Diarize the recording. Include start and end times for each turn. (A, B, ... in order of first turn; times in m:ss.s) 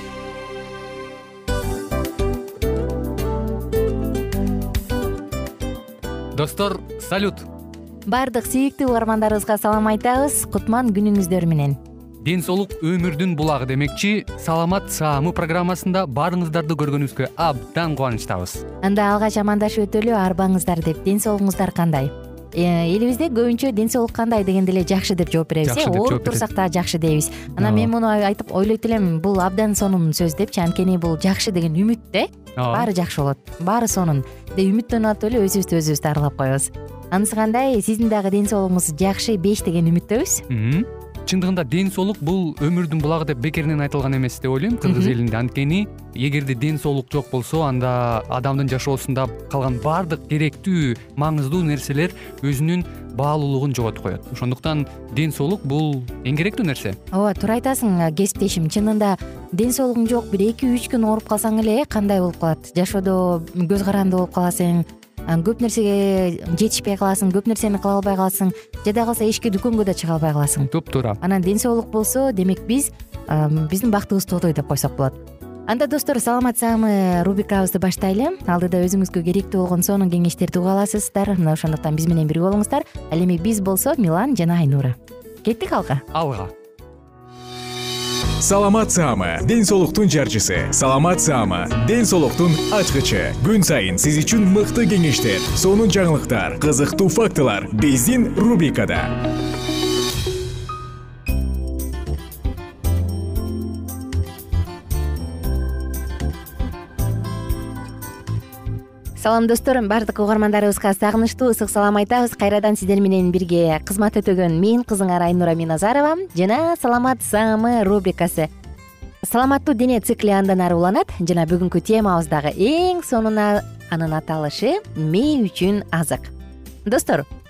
0:06.4-0:07.5 A
0:08.1-0:11.8 B
0:12.2-0:18.6 A
0:18.8-0:40.4 B
0:25.6-0:26.4 A
0:27.6-0:27.9 A
0:32.6-0:32.9 A
0:40.5-0:57.0 A
0:44.8-0:45.2 B
0:57.1-1:26.0 B
1:10.7-1:11.2 A
1:26.1-1:26.5 A
1:28.4-1:39.2 C
1:49.2-1:58.5 B
1:59.2-2:06.3 B
2:06.9-2:07.3 B